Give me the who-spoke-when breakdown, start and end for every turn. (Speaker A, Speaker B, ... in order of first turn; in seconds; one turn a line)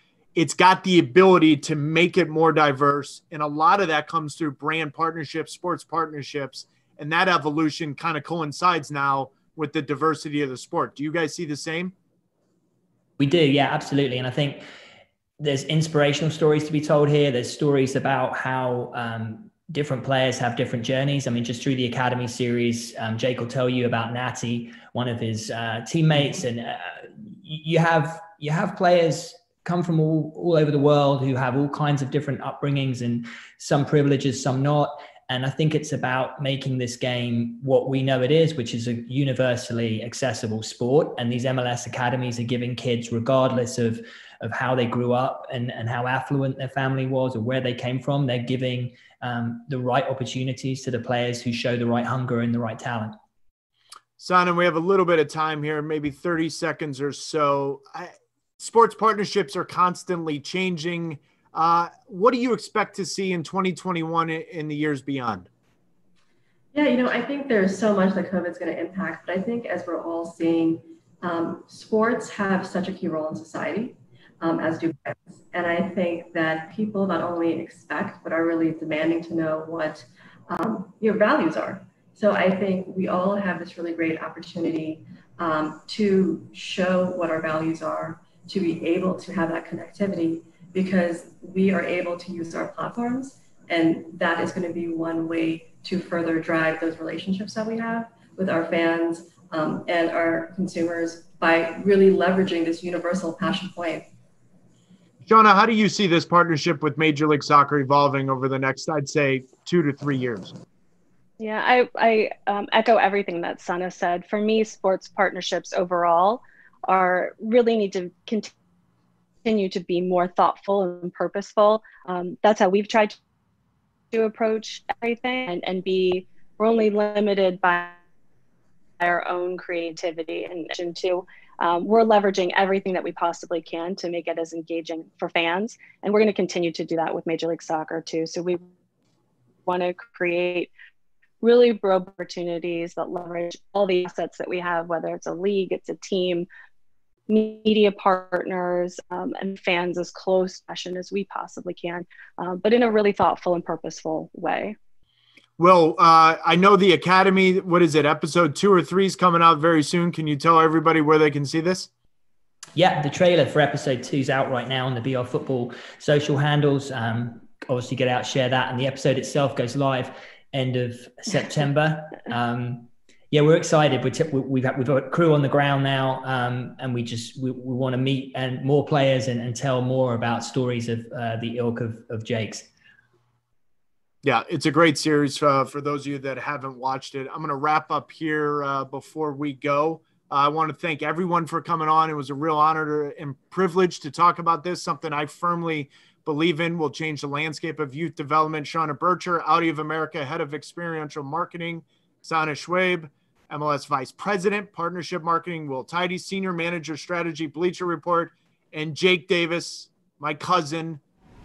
Speaker A: 0.3-11.9
Speaker B: 13.2-14.6
Speaker B: 15.4-53.1
Speaker A: 54.2-65.5
Speaker C: 66.7-104.1
Speaker A: 105.2-110.5
Speaker D: 111.4-118.5
Speaker D: 119.4-123.2
Speaker D: 124.1-128.0
Speaker D: 129.0-138.6
Speaker D: 139.7-140.7
Speaker D: 141.4-146.5
Speaker D: 147.3-154.8
Speaker A: 155.6-161.9
Speaker B: 162.8-182.7
Speaker A: 184.2-211.0